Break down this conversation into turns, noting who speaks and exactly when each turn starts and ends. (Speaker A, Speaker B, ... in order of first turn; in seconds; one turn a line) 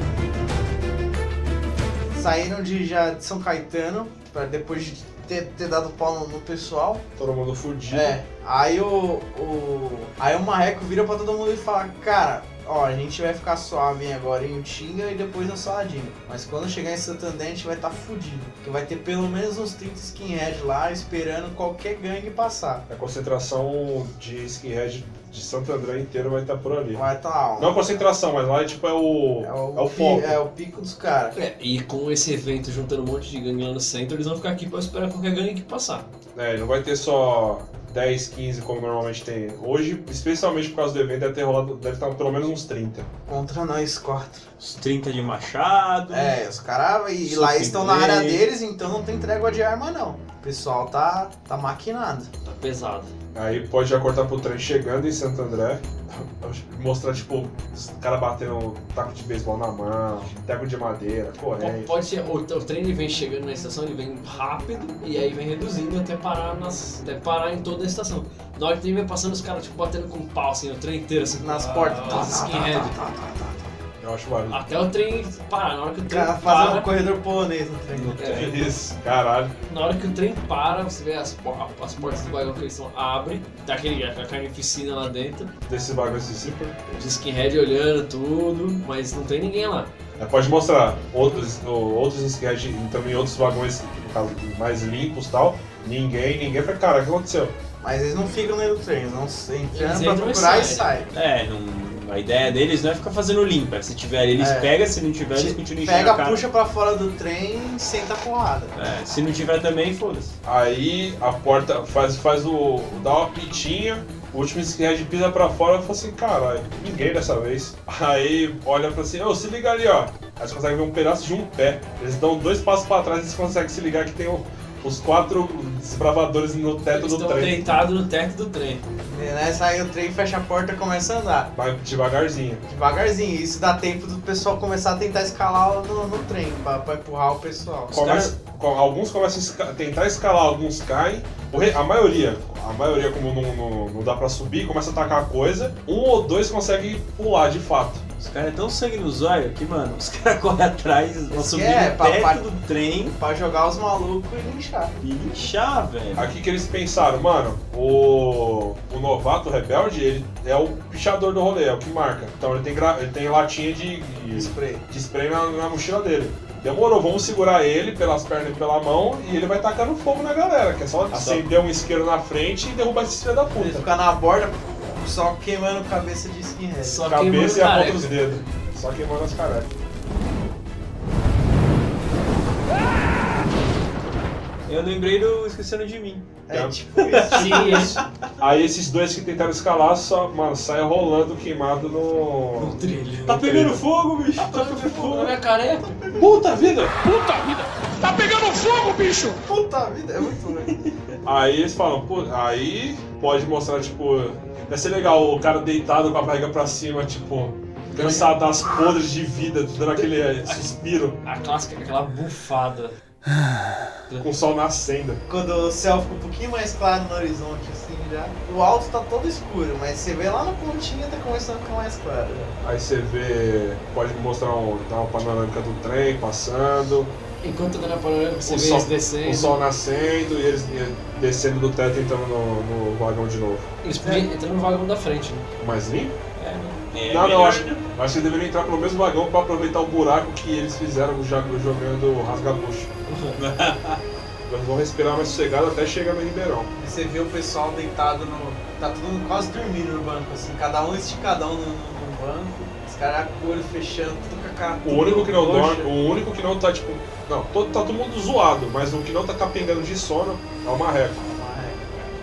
Speaker A: 2.1-7.0
Speaker B: 7.2-8.2
Speaker A: 7.9-22.8
Speaker B: 22.9-27.1
Speaker A: 26.9-28.0
Speaker B: 27.6-30.4
Speaker A: 29.4-31.3
Speaker C: 31.3-36.1
Speaker B: 36.3-43.1
Speaker A: 43.3-44.5
Speaker D: 44.6-46.4
Speaker A: 46.1-52.3
Speaker D: 47.2-48.4
Speaker C: 52.4-53.1
Speaker B: 53.3-61.9
Speaker C: 61.6-73.0
Speaker A: 71.4-73.7
Speaker B: 74.0-74.6
Speaker C: 74.5-76.9
Speaker A: 76.1-78.5
Speaker D: 77.9-78.5
Speaker C: 78.2-78.5
Speaker B: 78.3-79.5
Speaker C: 79.7-85.5
Speaker B: 85.7-86.7
Speaker C: 86.8-89.9
Speaker B: 90.2-97.5
Speaker A: 97.8-101.1
Speaker C: 99.7-101.0
Speaker D: 101.1-106.4
Speaker A: 104.4-104.7
Speaker A: 105.3-108.7
Speaker D: 108.7-110.3
Speaker B: 110.4-127.7
Speaker C: 126.9-128.8
Speaker A: 129.1-131.5
Speaker B: 131.5-132.6
Speaker A: 132.7-138.0
Speaker B: 137.9-148.0
Speaker D: 148.2-153.2
Speaker A: 151.3-152.4
Speaker A: 153.2-154.9
Speaker D: 155.0-156.3
Speaker B: 156.1-173.8
Speaker A: 164.3-164.8
Speaker D: 171.1-171.4
Speaker A: 173.6-177.1
Speaker C: 176.8-178.4
Speaker B: 177.0-179.7
Speaker D: 184.7-186.3
Speaker A: 186.5-188.0
Speaker B: 186.5-186.8
Speaker D: 187.1-187.9
Speaker C: 187.3-188.0
Speaker B: 188.4-192.8
Speaker C: 192.6-193.5
Speaker D: 193.2-195.3
Speaker B: 193.4-193.8
Speaker C: 194.4-196.2
Speaker A: 195.8-196.3
Speaker B: 196.2-199.4
Speaker A: 199.4-200.7
Speaker B: 201.2-211.2
Speaker C: 207.9-208.3
Speaker C: 209.9-212.9
Speaker B: 214.2-215.2
Speaker A: 215.3-222.5
Speaker B: 222.6-227.1
Speaker C: 227.4-229.6
Speaker B: 228.4-233.7
Speaker C: 233.8-235.5
Speaker B: 235.6-236.1
Speaker C: 236.4-236.8
Speaker D: 236.9-237.8
Speaker B: 237.1-242.9
Speaker C: 243.1-243.4
Speaker D: 243.4-244.0
Speaker B: 244.5-246.7
Speaker A: 246.8-255.9
Speaker B: 254.8-261.2
Speaker A: 261.2-262.1